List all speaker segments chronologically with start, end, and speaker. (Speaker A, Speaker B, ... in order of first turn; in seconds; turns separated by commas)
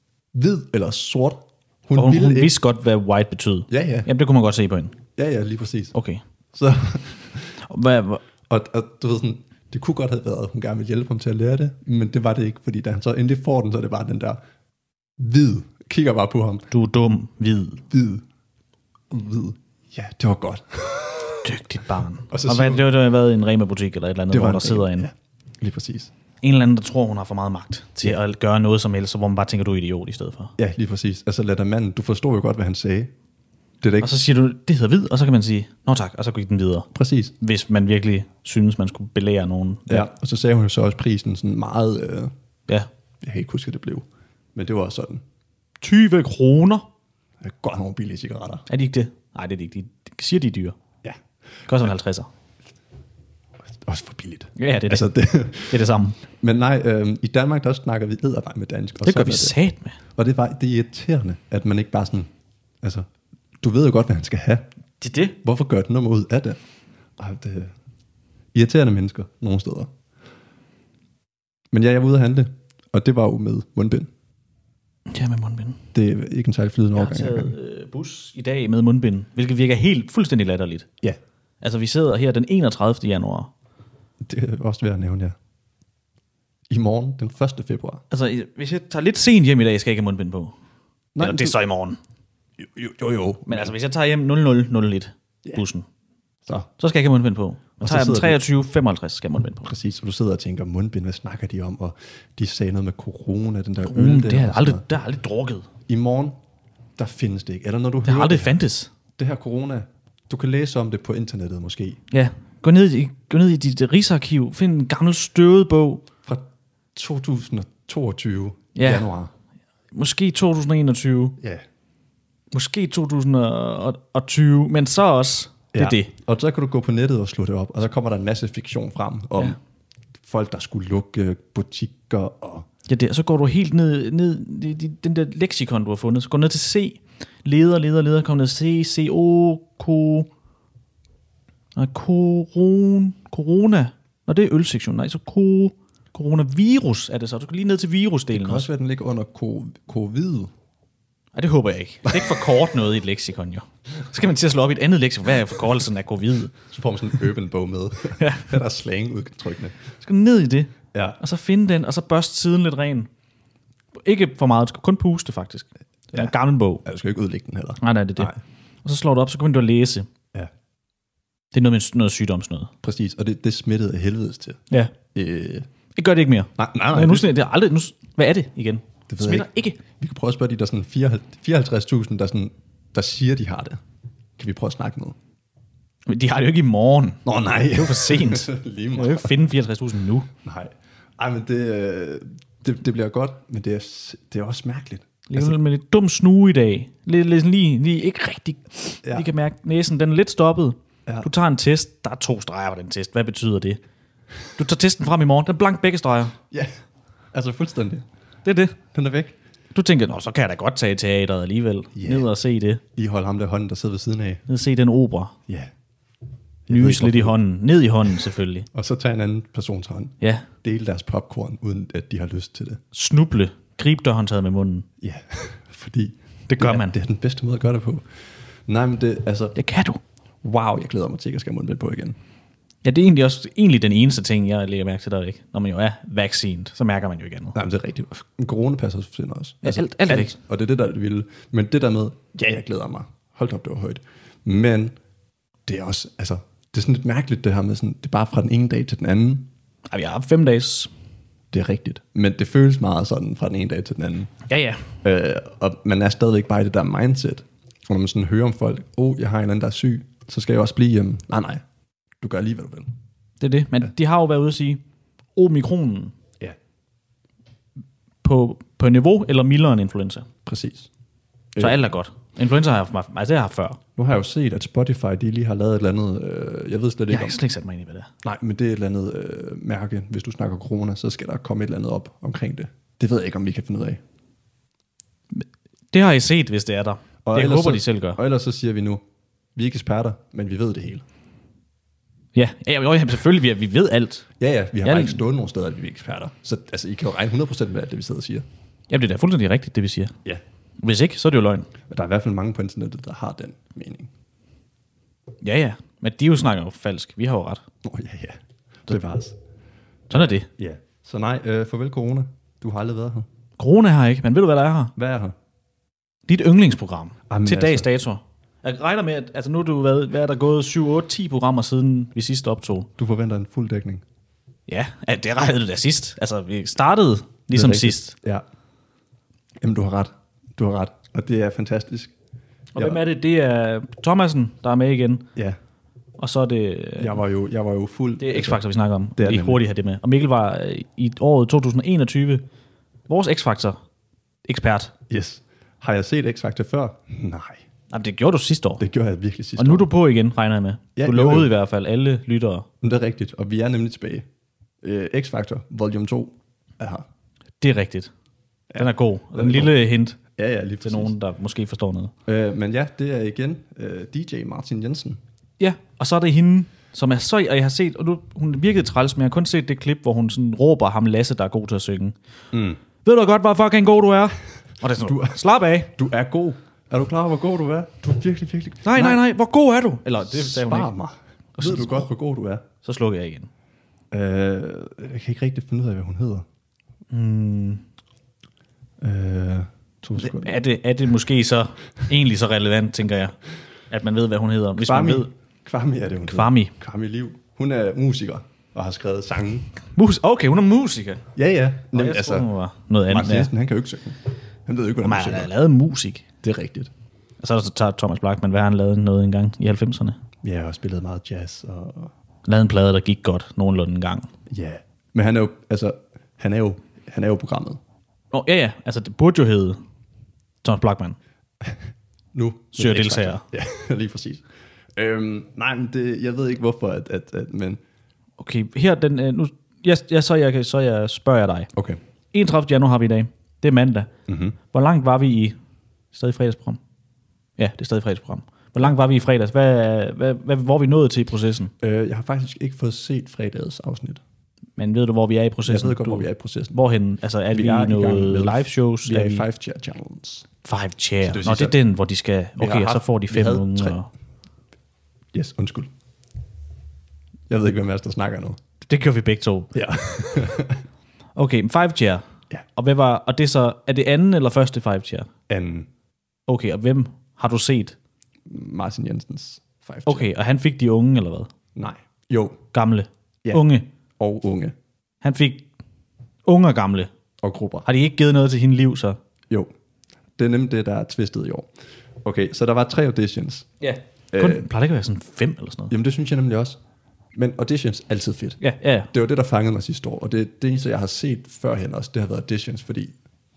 Speaker A: 0.3-2.5, Speaker B: 1.9-5.0, Speaker A: 3.7-4.1, Speaker A: 5.2-5.9, Speaker B: 5.9-6.2, Speaker A: 6.5-7.6, Speaker B: 7.6-8.2, Speaker A: 8.5-14.4, Speaker A: 15.2-16.7, Speaker B: 16.7-17.8, Speaker A: 17.9-18.2, Speaker A: 19.1-21.5, Speaker B: 21.4-25.1, Speaker A: 22.3-22.9, Speaker A: 24.3-26.1, Speaker B: 26.4-30.5, Speaker A: 30.6-33.1, Speaker A: 33.8-34.1, Speaker B: 34.0-36.9, Speaker A: 36.9-37.3, Speaker B: 37.4-40.1, Speaker A: 39.9-42.3, Speaker A: 43.2-45.2, Speaker B: 45.8-46.9, Speaker A: 47.4-48.6, Speaker B: 48.7-50.8, Speaker B: 51.7-52.3, Speaker A: 53.7-55.8, Speaker B: 54.6-56.2, Speaker A: 56.4-59.5, Speaker B: 59.0-60.0, Speaker A: 60.1-62.3, Speaker A: 62.8-63.0, Speaker A: 63.6-64.7, Speaker B: 65.0-65.3, Speaker A: 65.4-66.6, Speaker A: 67.2-67.7, Speaker A: 68.5-69.9, Speaker A: 71.7-74.1, Speaker B: 75.1-75.8, Speaker A: 75.9-77.5, Speaker B: 77.0-80.9, Speaker B: 81.6-83.5, Speaker A: 84.2-85.3, Speaker A: 86.7-88.0, Speaker B: 88.1-90.5, Speaker A: 91.1-91.6, Speaker B: 91.2-92.0, Speaker A: 92.6-93.7, Speaker B: 93.5-95.8, Speaker B: 96.8-99.7, Speaker A: 97.8-98.4, Speaker A: 99.7-104.8, Speaker B: 103.8-105.7, Speaker A: 105.9-106.4, Speaker A: 107.0-108.5, Speaker B: 108.0-108.9, Speaker A: 109.2-112.0, Speaker B: 112.1-116.0, Speaker A: 116.2-119.3, Speaker B: 118.7-119.1, Speaker B: 119.9-121.3, Speaker A: 121.4-121.6, Speaker B: 122.5-126.1, Speaker A: 125.7-129.6, Speaker A: 130.2-132.7, Speaker B: 132.9-140.3, Speaker B: 141.7-148.6, Speaker A: 148.3-150.5, Speaker B: 151.3-156.6, Speaker A: 152.0-152.4, Speaker A: 156.7-159.8, Speaker B: 158.2-158.5, Speaker B: 160.0-163.1, Speaker A: 160.9-161.2, Speaker B: 164.0-166.8, Speaker A: 166.8-168.4, Speaker B: 167.8-170.1, Speaker B: 171.5-172.7, Speaker A: 172.8-174.6, Speaker A: 175.1-175.7, Speaker B: 175.9-179.8, Speaker A: 176.6-177.3, Speaker A: 179.1-183.8, Speaker A: 184.4-185.2, Speaker B: 186.1-190.3, Speaker A: 187.2-189.3, Speaker A: 190.4-195.6, Speaker B: 195.3-203.8, Speaker B: 204.6-206.3, Speaker A: 207.3-208.0, Speaker B: 208.4-208.8, Speaker A: 208.9-209.4, Speaker B: 209.7-212.8, Speaker A: 211.9-212.3, Speaker A: 212.9-214.4, Speaker B: 214.5-215.3, Speaker A: 216.7-217.4, Speaker B: 216.7-218.7, Speaker A: 218.7-222.8, Speaker B: 220.2-220.5, Speaker B: 222.9-224.9, Speaker A: 225.0-228.1, Speaker B: 226.5-226.9, Speaker A: 228.7-229.6, Speaker B: 229.6-230.0, Speaker A: 230.4-232.2, Speaker B: 232.8-237.5, Speaker A: 237.5-244.9, Speaker B: 239.6-240.3, Speaker A: 245.7-249.5, Speaker B: 249.9-250.9, Speaker A: 251.5-254.3, Speaker B: 254.5-254.9, Speaker A: 255.0-261.6, Speaker A: 262.2-262.9, Speaker B: 263.4-264.8, Speaker B: 265.4-266.1, Speaker B: 268.2-270.3, Speaker A: 270.4-270.9, Speaker B: 271.6-273.8, Speaker A: 274.0-277.4, Speaker B: 277.1-278.1, Speaker A: 278.2-284.0, Speaker B: 285.3-288.2, Speaker A: 287.2-289.0, Speaker A: 289.6-291.0, Speaker B: 292.3-294.2, Speaker A: 294.4-298.4, Speaker B: 294.8-295.2, Speaker B: 298.9-300.1, Speaker B: 300.8-301.7, Speaker A: 301.9-304.1, Speaker B: 305.4-307.6, Speaker A: 307.8-309.4, Speaker A: 310.1-313.2, Speaker B: 310.1-310.5, Speaker B: 313.6-314.9, Speaker A: 314.9-315.3, Speaker B: 316.3-322.9, Speaker A: 317.3-317.9, Speaker A: 323.0-324.0, Speaker B: 324.7-328.1, Speaker A: 327.5-328.4, Speaker A: 329.6-332.1, Speaker B: 332.7-335.3, Speaker B: 336.2-337.2, Speaker A: 337.0-338.6, Speaker B: 338.2-342.4, Speaker A: 339.2-339.6, Speaker B: 343.1-343.8, Speaker B: 344.5-344.9, Speaker A: 345.1-347.6, Speaker B: 347.9-348.8, Speaker A: 348.8-349.9, Speaker B: 349.6-352.6, Speaker A: 350.9-351.5, Speaker A: 352.8-354.2, Speaker A: 354.8-357.1, Speaker B: 357.6-358.1, Speaker A: 358.7-359.7, Speaker B: 358.8-360.2, Speaker A: 360.4-361.1, Speaker B: 360.8-362.1, Speaker A: 362.2-365.2, Speaker B: 365.6-372.1, Speaker A: 372.5-372.8, Speaker B: 373.0-375.9, Speaker A: 375.0-375.4, Speaker A: 375.9-379.2, Speaker B: 378.8-380.9, Speaker A: 380.3-382.6, Speaker B: 381.6-382.1, Speaker B: 382.8-383.5, Speaker A: 384.1-386.4, Speaker B: 387.1-387.8, Speaker A: 389.0-390.6, Speaker B: 390.2-393.4, Speaker B: 393.9-395.3, Speaker A: 394.8-399.7, Speaker B: 396.3-396.7, Speaker B: 399.9-401.3, Speaker A: 401.3-402.5, Speaker B: 401.9-403.5, Speaker A: 403.1-405.5, Speaker B: 405.0-406.2, Speaker A: 406.4-406.9, Speaker B: 407.4-410.2, Speaker A: 410.4-412.1, Speaker B: 412.4-414.3, Speaker A: 414.5-417.8, Speaker B: 418.3-419.8, Speaker B: 420.6-421.2, Speaker A: 422.3-424.4, Speaker B: 422.8-423.4, Speaker A: 424.9-427.8, Speaker B: 428.4-431.7, Speaker A: 431.7-432.0, Speaker B: 432.3-434.1, Speaker A: 434.3-434.6, Speaker B: 434.7-435.6, Speaker B: 436.1-436.8, Speaker B: 437.6-441.7, Speaker A: 441.8-444.2, Speaker B: 444.8-449.4, Speaker A: 445.6-446.8, Speaker A: 447.5-450.5, Speaker B: 450.6-454.1, Speaker A: 451.2-451.8, Speaker A: 452.6-454.0, Speaker A: 455.3-455.9, Speaker A: 457.5-458.6, Speaker B: 458.9-459.7, Speaker A: 459.7-460.8, Speaker B: 461.4-462.2, Speaker B: 462.8-465.3, Speaker A: 465.5-465.9, Speaker B: 466.5-467.9, Speaker A: 468.5-470.3, Speaker B: 470.1-471.5, Speaker A: 471.8-472.6, Speaker B: 472.7-473.9, Speaker A: 474.2-474.7, Speaker B: 475.2-475.6, Speaker B: 476.4-477.1, Speaker A: 477.4-477.9, Speaker B: 477.9-479.2, Speaker A: 480.4-481.7, Speaker A: 482.2-483.7, Speaker B: 483.8-485.9, Speaker A: 484.3-484.7, Speaker A: 485.9-486.8, Speaker A: 487.3-488.6, Speaker B: 488.6-489.1, Speaker A: 489.1-493.1